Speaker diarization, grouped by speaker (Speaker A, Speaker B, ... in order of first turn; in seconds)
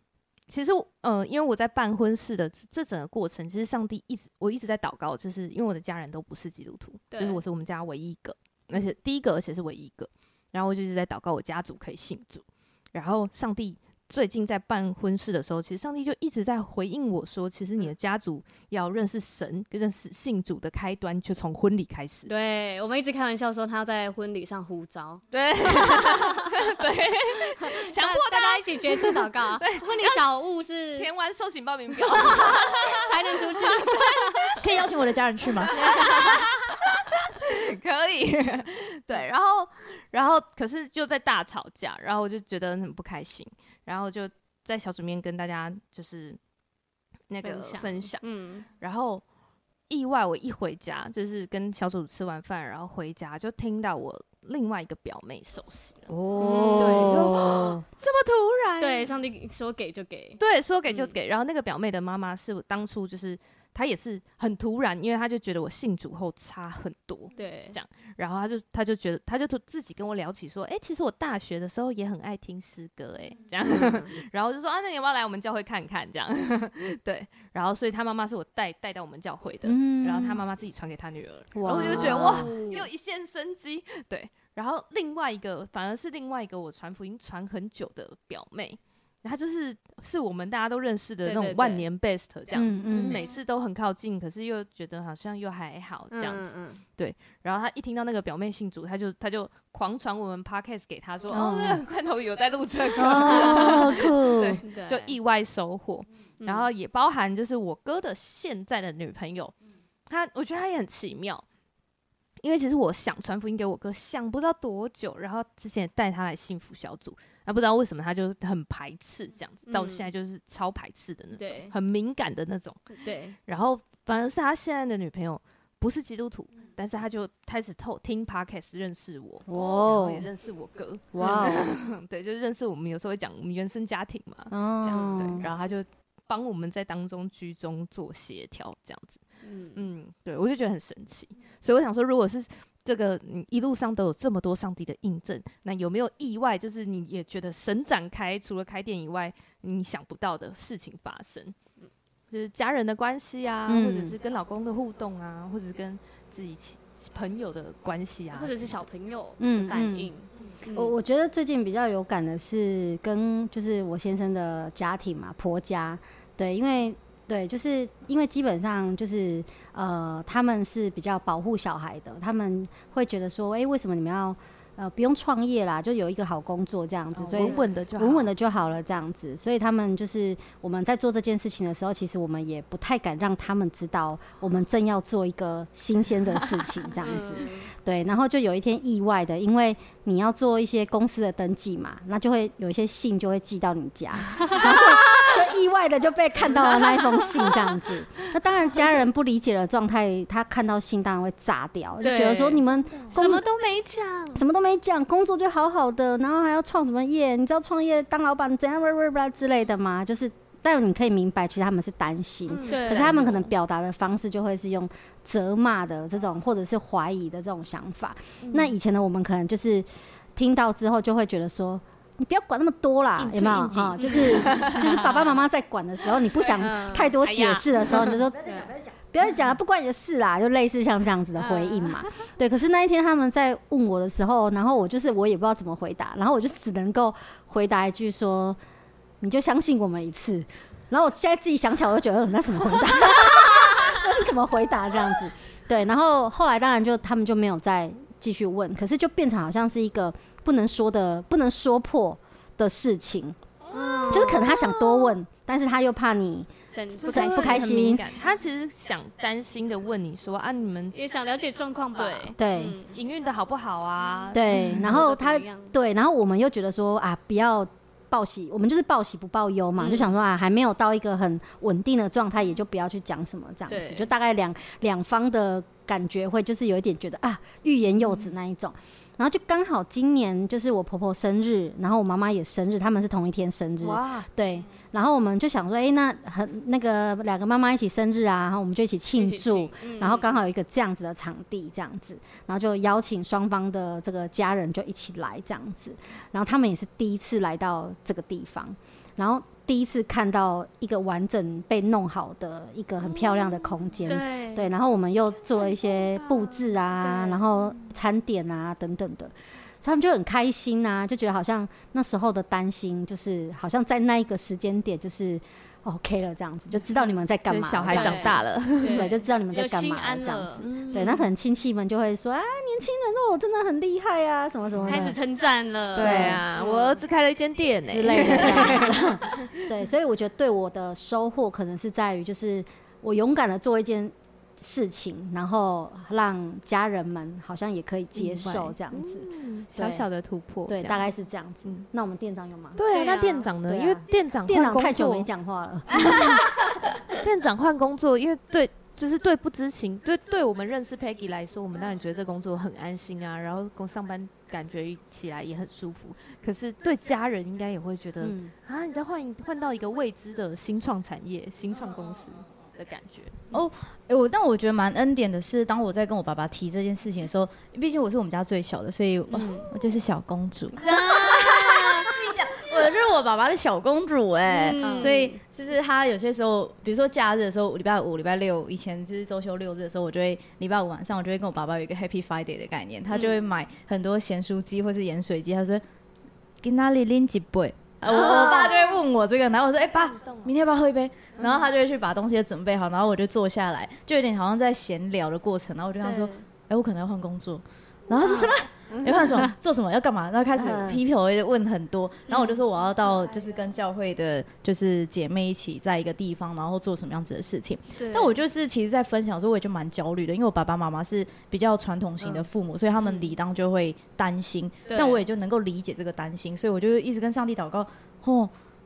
Speaker A: 0.5-22.3, 25.3-30.3, 31.0-34.6, 35.6-46.4, 47.3-49.2, 49.9-56.1, 56.8-59.1, 60.4-109.5, 110.1-111.5, 112.4-139.2, 139.8-151.6, 152.3-158.8, 177.2-178.3, 187.0-187.5, 212.5-213.5, 218.4-218.8, 223.2-225.0, 227.2-228.2, 253.7-254.8, 257.0-261.0, 262.0-262.4, 262.9-264.9, 283.8-284.3, 303.2-303.6, 317.5-319.1, 320.6-321.3, 325.9-329.4, 338.1-341.1, 342.8-345.3, 345.9-363.5, 389.9-390.5
Speaker B: 7.1-7.4, 22.3-26.7, 27.6-31.1, 32.1-34.6, 35.7-36.5, 47.4-48.7, 56.4-57.3, 58.8-61.1, 67.4-67.8, 73.7-74.1, 81.8-82.9, 91.2-91.8, 93.0-93.3, 96.1-96.8, 103.1-104.0, 104.6-105.1, 106.4-106.7, 119.7-120.1, 121.4-121.7, 123.0-123.4, 131.2-131.6, 134.9-135.3, 139.4-139.8, 158.3-160.9, 187.2-187.7, 202.0-204.4, 212.7-213.2, 224.0-225.4, 226.6-227.2, 231.4-232.1, 253.7-254.6, 256.7-257.7, 260.9-263.0, 264.5-265.7, 269.8-270.1, 273.7-274.1, 289.1-290.4, 304.1-304.7, 307.0-307.4, 317.9-321.1, 324.9-327.0, 342.9-343.5, 369.3-369.7, 370.8-372.2, 374.5-375.4, 388.1-388.9, 396.0-396.4, 398.1-398.6, 402.3-402.6, 408.0-408.4, 414.9-415.2
Speaker C: 34.6-35.8, 228.1-229.0, 363.5-385.8, 386.6-418.5
Speaker D: 56.1-57.8, 79.6-80.5, 81.5-82.5, 92.5-93.2, 101.3-101.8, 103.0-104.6, 129.5-130.3, 131.1-131.7, 134.5-135.5, 153.7-154.2, 159.4-160.1, 160.7-203.5, 204.3-238.6, 239.2-253.4, 254.1-256.5, 257.0-258.1, 262.4-262.8, 264.3-325.2, 326.0-326.4, 327.9-340.1, 340.7-342.8, 343.6-346.4, 358.2-358.5, 374.8-375.2, 400.6-401.0